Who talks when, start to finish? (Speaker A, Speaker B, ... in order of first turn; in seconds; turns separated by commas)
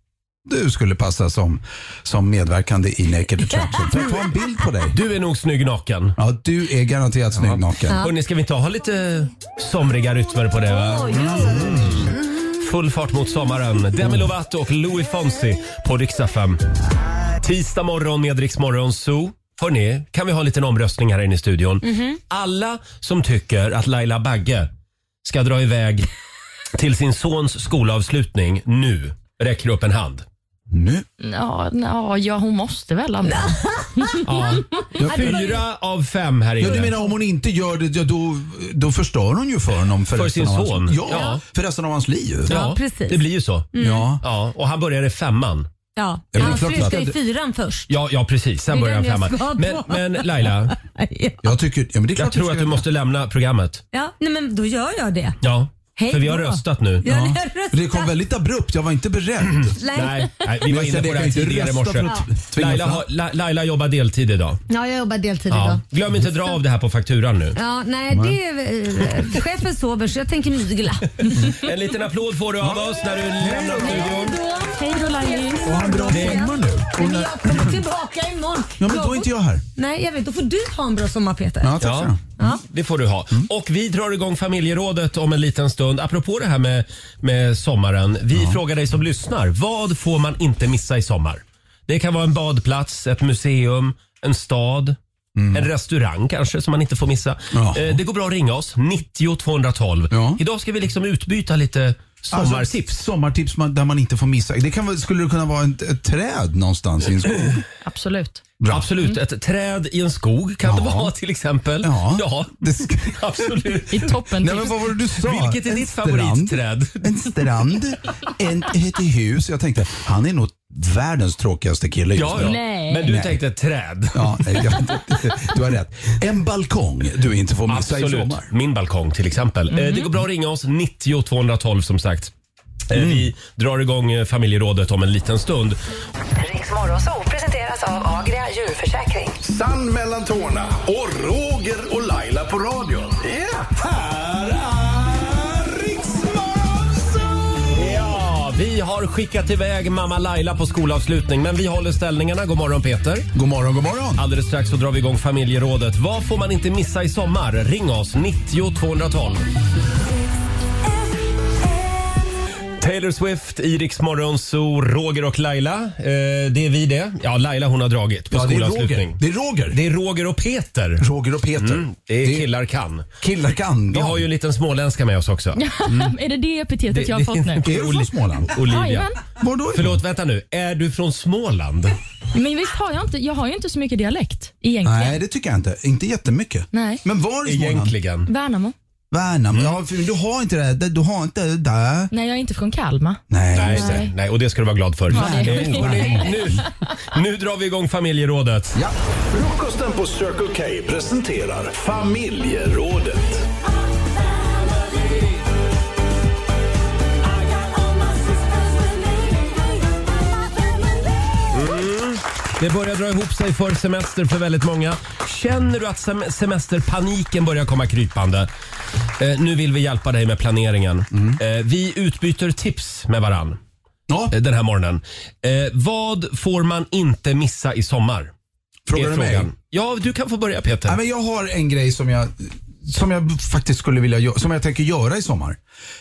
Speaker A: 0.5-5.0, Speaker B: 4.9-6.2, Speaker A: 6.2-8.0, Speaker B: 7.4-16.6, Speaker C: 7.9-8.1, Speaker C: 10.7-11.8, Speaker A: 11.1-12.1, Speaker A: 14.0-14.3, Speaker B: 17.4-24.7, Speaker C: 21.8-22.2, Speaker B: 25.2-26.1, Speaker B: 26.8-30.2, Speaker A: 30.7-31.1, Speaker D: 31.2-33.6, Speaker C: 33.3-35.6, Speaker B: 34.2-37.0, Speaker A: 35.0-35.6, Speaker A: 36.6-42.6, Speaker C: 36.6-37.0, Speaker B: 40.1-41.4, Speaker C: 41.1-41.4, Speaker B: 42.5-43.7, Speaker C: 42.5-44.1, Speaker A: 43.8-44.2, Speaker B: 44.2-45.7, Speaker C: 46.0-47.9, Speaker A: 46.3-47.2, Speaker B: 46.4-47.0, Speaker B: 47.9-50.8, Speaker C: 48.7-51.5, Speaker A: 51.4-52.9, Speaker B: 52.2-53.8, Speaker C: 53.9-55.4, Speaker B: 55.4-57.0, Speaker C: 56.0-58.1, Speaker A: 57.0-59.8, Speaker B: 59.6-64.6, Speaker C: 59.8-60.4, Speaker A: 60.6-63.1, Speaker C: 64.7-65.8, Speaker B: 65.5-67.6, Speaker C: 67.6-71.4, Speaker A: 68.1-68.4, Speaker B: 71.4-74.4, Speaker A: 72.6-74.3, Speaker C: 73.5-81.8, Speaker D: 74.9-75.9, Speaker A: 75.6-77.8, Speaker B: 76.1-76.4, Speaker A: 78.8-79.6, Speaker A: 81.6-82.2, Speaker B: 81.8-95.0, Speaker A: 88.3-88.6, Speaker A: 95.4-95.7, Speaker B: 95.5-103.0, Speaker A: 97.5-98.0, Speaker A: 100.1-100.4, Speaker A: 102.3-107.6, Speaker D: 107.8-108.4, Speaker A: 108.6-108.9, Speaker B: 108.7-114.2, Speaker A: 110.6-111.1, Speaker A: 111.8-113.5, Speaker D: 113.9-114.8, Speaker A: 114.4-123.4, Speaker B: 115.2-117.2, Speaker B: 122.2-124.8, Speaker D: 122.4-123.1, Speaker A: 124.1-128.5, Speaker B: 127.7-132.3, Speaker D: 129.7-130.1, Speaker B: 132.9-135.8, Speaker A: 132.9-133.3, Speaker E: 136.4-139.4, Speaker F: 139.4-147.7, Speaker B: 147.7-153.3, Speaker A: 153.3-154.2, Speaker B: 154.2-159.5, Speaker B: 162.8-169.2, Speaker A: 168.3-169.8, Speaker B: 169.7-171.1, Speaker A: 171.0-172.5, Speaker B: 171.6-173.1, Speaker A: 173.2-174.3, Speaker B: 173.9-176.1, Speaker D: 175.6-177.7, Speaker B: 176.9-179.1, Speaker A: 177.7-178.6, Speaker D: 178.6-179.2, Speaker A: 179.4-180.0, Speaker B: 179.7-182.0, Speaker D: 182.3-185.2, Speaker A: 184.8-187.9, Speaker D: 186.7-187.0, Speaker B: 187.4-188.3, Speaker D: 188.3-188.8, Speaker A: 189.1-192.1, Speaker D: 192.1-194.1, Speaker A: 193.3-194.1, Speaker B: 193.5-198.8, Speaker A: 195.1-196.6, Speaker D: 195.1-196.3, Speaker F: 199.3-203.5, Speaker B: 211.5-218.5, Speaker B: 219.2-223.6, Speaker A: 221.1-221.4, Speaker A: 224.1-224.3, Speaker B: 224.3-228.3, Speaker A: 228.9-229.5, Speaker B: 228.9-231.0, Speaker A: 230.9-235.6